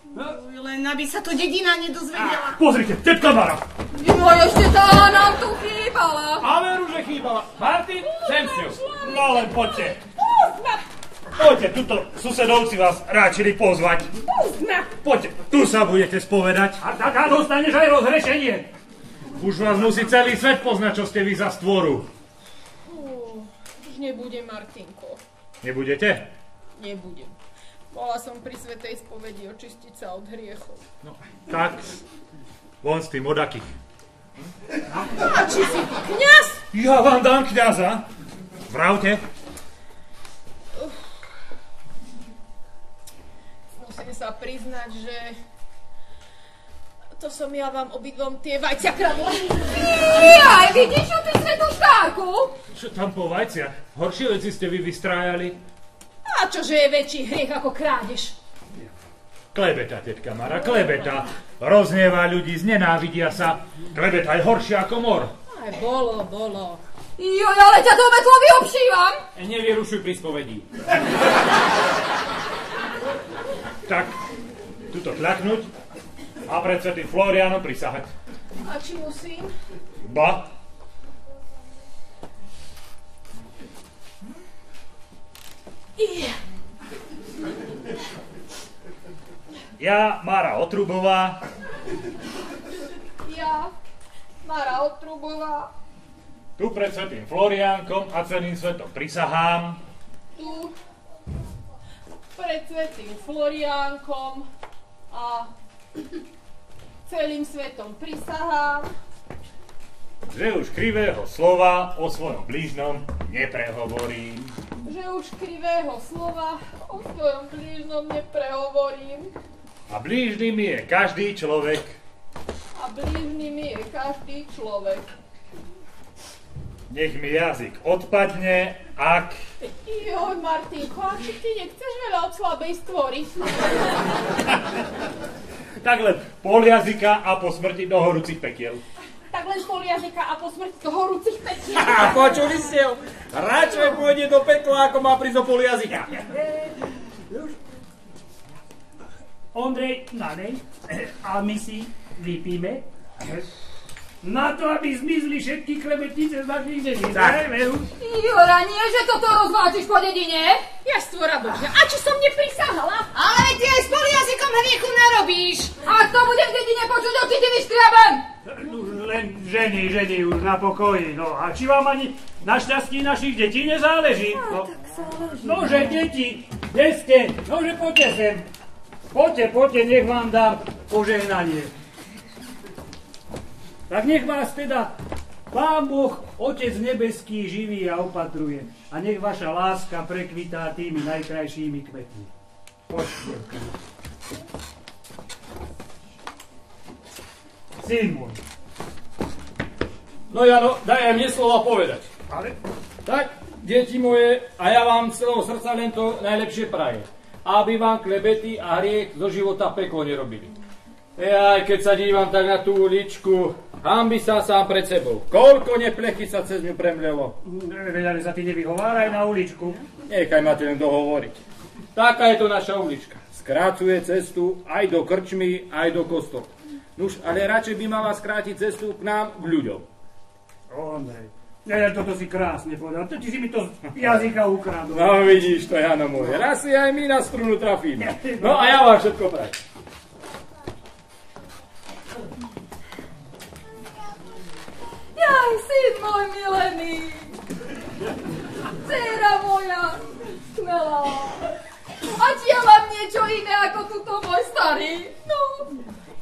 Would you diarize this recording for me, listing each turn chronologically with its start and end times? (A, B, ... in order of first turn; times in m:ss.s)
0:00.2-0:02.6 A
0:02.2-0:03.6 B
0:03.9-0:06.4 C
0:06.4-0:08.8 D
0:08.3-0:09.5 E
0:09.0-0:10.0 B
0:10.2-0:10.8 E
0:11.3-0:14.1 B
0:14.4-0:14.9 E
0:14.9-0:16.8 B
0:16.8-0:18.7 F
0:19.4-0:22.1 B
0:22.9-0:25.2 E
0:25.6-0:26.3 B
0:26.8-0:27.3 E
0:27.9-0:30.8 E
0:31.0-0:31.8 B
0:32.8-0:33.7 B
0:35.2-0:36.6 E
0:36.7-0:38.0 B
0:38.7-0:39.2 B
0:43.7-0:45.4 E
0:47.2-0:50.5 E
0:49.8-0:52.5 C
0:52.7-0:55.6 B
0:56.2-0:58.4 E
0:59.5-1:05.3 B
1:05.5-1:06.8 E
1:07.2-1:09.2 C
1:09.3-1:10.7 D
1:13.8-1:14.2 B
1:14.9-1:15.7 B
1:16.4-1:18.1 B
1:18.6-1:19.5 E
1:20.0-1:20.5 B
1:26.0-1:26.4 E
1:29.8-1:31.4 B
1:33.2-1:33.7 E
1:34.4-1:35.7 E
1:36.6-1:39.8 B
1:40.4-1:40.7 E
1:42.3-1:44.5 E
1:45.1-1:45.5 E
1:47.1-1:48.9 E
1:50.3-1:54.5 B
1:54.8-1:59.3 E
1:59.9-2:02.0 B
2:02.7-2:05.0 E
2:06.9-2:09.4 B
2:09.6-2:13.9 E
2:15.8-2:18.8 B
2:19.3-2:22.4 E
2:21.7-2:26.2 D
2:29.5-2:33.4 F
2:34.2-2:37.9 F
2:38.0-2:40.6 C
2:40.8-2:43.1 E
2:43.1-2:45.8 A
2:45.8-2:48.2 C
2:48.4-2:54.7 F
2:54.5-2:56.0 C
2:55.3-2:58.5 F
2:59.1-3:01.7 F
3:03.9-3:04.9 F
3:05.5-3:12.3 F
3:12.9-3:13.5 D
3:17.8-3:18.4 F
3:20.3-3:22.1 D
3:22.3-3:22.6 F
3:23.0-3:30.5 D
3:31.2-3:37.4 D
3:37.4-3:39.8 F
3:40.0-3:41.4 D
3:41.9-3:49.9 D
3:50.7-3:55.3 F
3:54.9-3:59.6 D
3:58.1-3:58.8 F
4:05.1-4:07.4 C
4:08.8-4:11.5 C
4:12.1-4:15.8 C